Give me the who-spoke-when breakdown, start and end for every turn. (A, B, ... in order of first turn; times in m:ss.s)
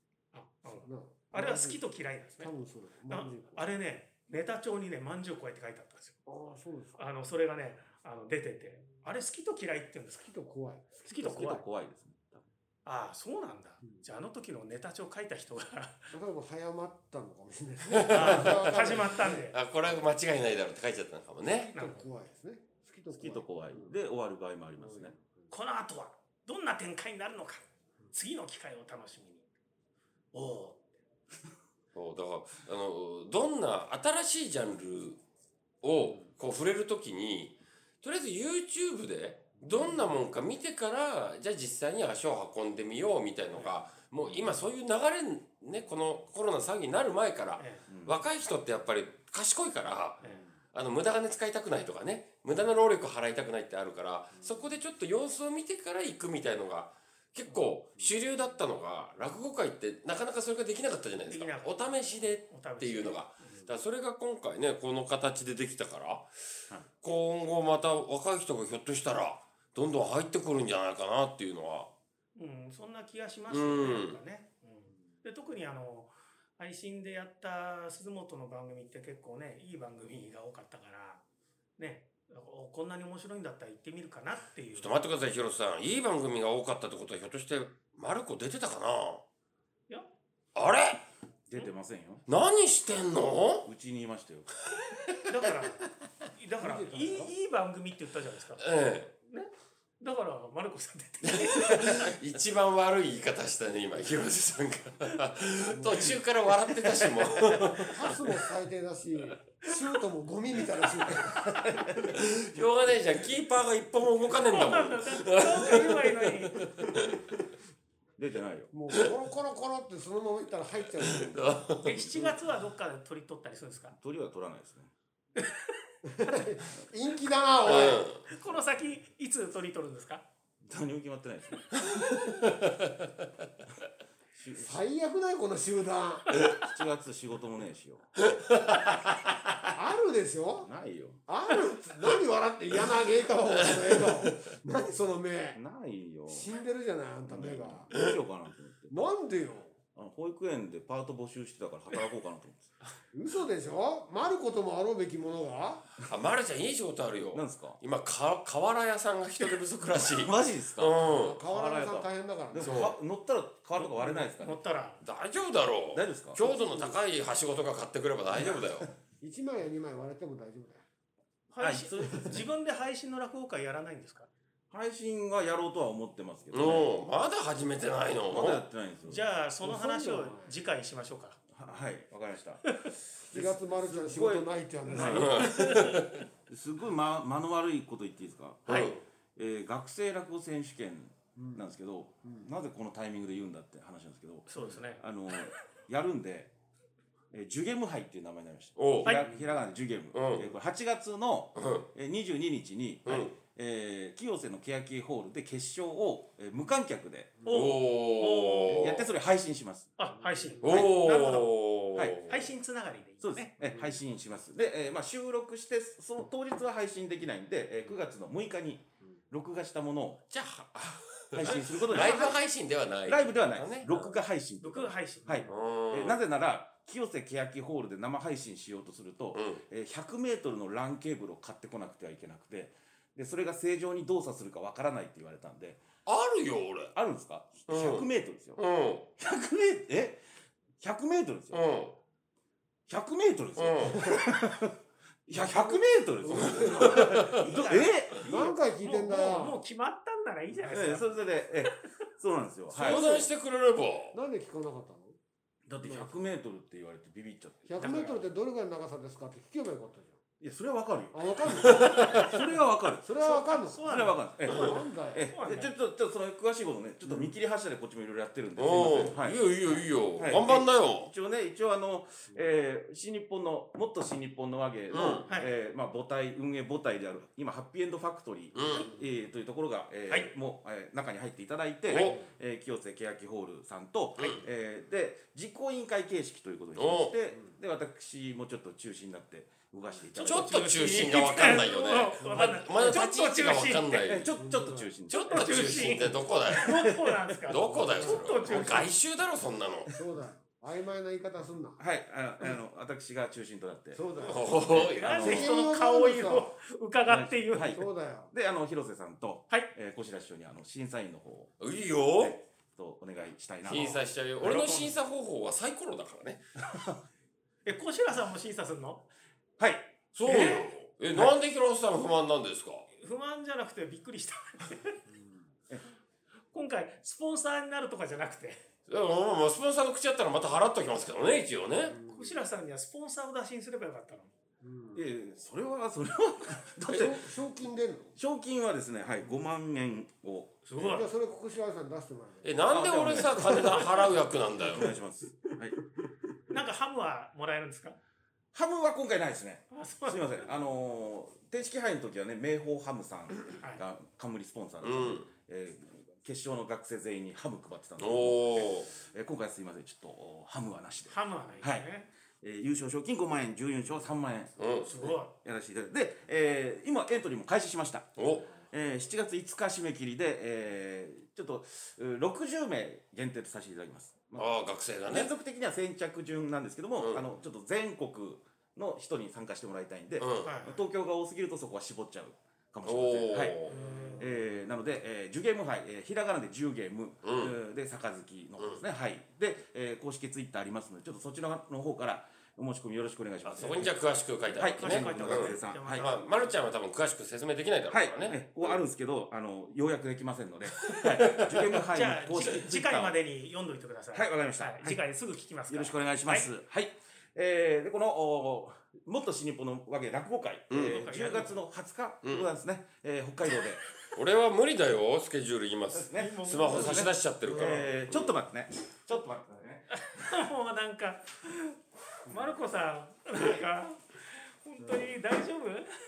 0:00.3-0:02.5 A
0:00.6-0:01.8 B
0:02.4-0:03.6 B
0:03.1-0:06.2 A
0:06.2-0:07.0 B
0:07.0-0:10.3 A
0:10.2-0:11.5 B
0:11.1-0:11.6 A
0:11.2-0:12.4 C
0:12.8-0:16.1 A
0:16.1-0:19.5 B
0:17.9-0:21.7 D
0:18.1-0:19.6 A
0:21.7-0:23.9 B
0:21.7-0:22.0 A
0:23.1-0:25.1 C
0:24.8-0:25.2 B
0:25.5-0:29.4 A
0:30.3-0:31.0 A
0:31.9-0:35.2 D
0:35.8-1:11.9 D
0:47.6-0:47.8 A
0:47.9-0:48.2 C
0:50.2-0:50.5 A
1:01.3-1:01.9 A
1:02.5-1:03.6 A
1:12.4-1:21.2 A
1:13.5-1:14.2 D
1:21.8-1:25.0 A
1:24.7-1:29.2 D
1:30.5-1:31.0 D
1:31.5-1:32.2 C
1:32.3-1:33.7 D
1:33.6-1:34.5 C
1:35.3-1:35.8 A
1:36.3-1:38.7 A
1:36.6-1:37.3 B
1:38.6-1:39.1 D
1:39.2-1:42.1 A
1:41.3-1:48.3 D
1:45.7-1:46.2 B
1:47.6-1:51.8 B
1:51.5-1:51.9 C
1:52.0-1:57.2 D
1:54.3-1:56.6 A
1:58.2-1:58.7 C
1:58.7-2:01.6 B
2:01.0-2:02.0 D
2:01.8-2:04.0 A
2:02.1-2:02.4 B
2:03.9-2:04.9 C
2:05.4-2:05.7 A
2:06.0-2:08.1 B
2:07.6-2:08.2 D
2:07.6-2:10.2 A
2:10.6-2:11.8 C
2:11.9-2:13.1 D
2:14.4-2:14.8 C
2:14.6-2:16.3 B
2:16.5-2:18.1 C
2:18.3-2:19.0 D
2:19.7-2:20.7 B
2:20.6-2:21.2 C
2:21.3-2:25.6 B
2:25.5-2:26.5 C
2:26.3-2:27.9 B
2:27.3-2:28.9 C
2:28.9-2:29.8 B
2:29.9-2:32.7 C
2:33.1-2:35.9 B
2:36.1-2:41.9 D
2:37.3-2:37.8 C
2:40.0-2:44.6 C
2:41.0-2:42.9 B
2:42.6-2:43.0 D
2:43.7-2:45.0 A
2:45.0-2:48.9 D
2:45.9-2:46.6 C
2:46.4-2:46.9 B
2:48.3-2:48.8 C
2:49.2-2:50.8 B
2:51.5-2:54.3 A
2:51.6-2:52.5 C
2:54.7-2:57.1 C
2:56.5-2:58.7 D
2:58.3-2:59.2 C
2:59.0-3:01.4 A
2:59.6-3:00.5 B
3:01.5-3:05.9 C
3:03.2-3:05.5 B
3:04.9-3:06.0 A
3:05.0-3:06.2 D
3:06.5-3:16.5 C
3:08.6-3:09.0 D
3:08.7-3:09.0 A
3:11.4-3:11.6 B
3:14.5-3:15.0 A
3:17.3-3:27.4 C
3:18.8-3:19.2 D
3:20.1-3:20.5 D
3:21.6-3:21.8 D
3:23.0-3:23.3 D
3:27.4-3:29.0 A
3:27.5-3:29.1 D
3:28.7-3:29.9 C
3:30.0-3:31.5 A
3:30.1-3:30.6 B
3:30.6-3:32.5 D
3:32.2-3:33.5 A
3:33.2-3:40.2 C
3:33.6-3:34.0 B
3:40.3-3:44.2 D
3:41.3-3:42.4 C
3:41.4-3:42.3 A
3:43.1-3:55.8 C
3:44.6-3:45.4 A
3:45.4-3:46.2 D
3:49.3-3:49.6 D
3:56.0-3:56.9 D
3:56.9-3:58.6 C
3:57.7-3:59.1 D
3:59.2-4:00.2 C
4:00.8-4:01.6 C
4:01.5-4:02.0 D
4:02.9-4:04.7 C
4:03.6-4:04.2 D
4:04.0-4:04.3 B
4:05.3-4:08.3 C
4:05.4-4:07.4 B
4:06.6-4:07.3 D
4:07.2-4:11.9 A
4:08.2-4:09.6 B
4:10.6-4:13.1 C
4:12.7-4:13.3 B
4:12.7-4:14.2 D
4:14.1-4:15.2 B
4:15.7-4:18.2 C
4:15.8-4:16.2 B
4:17.7-4:20.2 B
4:17.8-4:18.2 A
4:20.4-4:23.1 C
4:21.1-4:22.4 B
4:21.6-4:22.3 D
4:23.0-4:25.3 B
4:23.2-4:25.7 A
4:23.8-4:51.6 C
4:28.6-4:31.1 D
4:34.9-4:35.3 D
4:35.2-4:35.5 A
4:38.5-4:38.9 D
4:41.9-4:42.2 D
4:41.9-4:42.3 B
4:44.2-4:44.4 D
4:46.8-4:47.1 D
4:50.1-4:54.1 A
4:50.2-4:54.3 D
4:52.2-4:52.6 B
4:54.0-4:57.2 C
4:54.4-4:54.9 B
4:55.1-4:56.9 D
4:55.1-4:58.9 A
4:57.5-4:59.9 D
4:57.7-4:58.5 B
4:58.4-4:58.9 C
4:59.9-5:01.8 B
5:01.8-5:05.6 C
5:03.9-5:06.5 B
5:04.2-5:05.4 D
5:04.9-5:07.8 A
5:07.0-5:11.5 C
5:07.7-5:08.3 B
5:11.6-5:12.4 D
5:12.2-5:14.9 C
5:13.6-5:16.4 D
5:14.4-5:14.9 A
5:16.6-5:17.0 C
5:17.6-5:19.1 A
5:19.6-5:20.6 C
5:20.1-5:22.9 D
5:20.3-5:20.7 A
5:23.0-5:25.0 A
5:26.5-5:28.6 A
5:28.9-5:31.9 D
5:31.8-5:32.4 B
5:32.0-5:34.3 A
5:34.6-5:35.0 B
5:34.9-5:37.3 C
5:36.9-5:38.2 B
5:38.2-5:40.9 C
5:40.7-5:41.1 A
5:40.8-5:44.1 B
5:42.4-5:44.9 D
5:42.6-5:45.8 C
5:46.5-5:48.0 A
5:48.5-6:33.9 C
5:49.7-5:50.2 A
5:54.8-5:55.3 D
5:58.0-5:58.9 D
6:01.1-6:02.1 A
6:04.6-6:05.0 D
6:04.8-6:05.3 A
6:08.2-6:08.5 D
6:14.4-6:15.3 D
6:17.0-6:17.2 D
6:20.2-6:20.5 D
6:20.4-6:20.8 A
6:22.8-6:23.8 D
6:23.7-6:24.3 B
6:27.2-6:27.6 D
6:33.4-6:38.8 D
6:34.5-6:36.1 C
6:34.6-6:36.6 A
6:37.9-6:43.2 C
6:40.8-6:41.8 D
6:41.8-6:46.5 A
6:44.1-6:45.0 C
6:45.7-6:53.8 C
6:50.7-6:51.2 D
6:50.9-6:51.6 A
6:52.2-6:52.5 D
6:54.1-6:58.3 D
6:55.9-7:00.3 C
6:56.1-6:57.0 A
6:59.9-7:05.9 A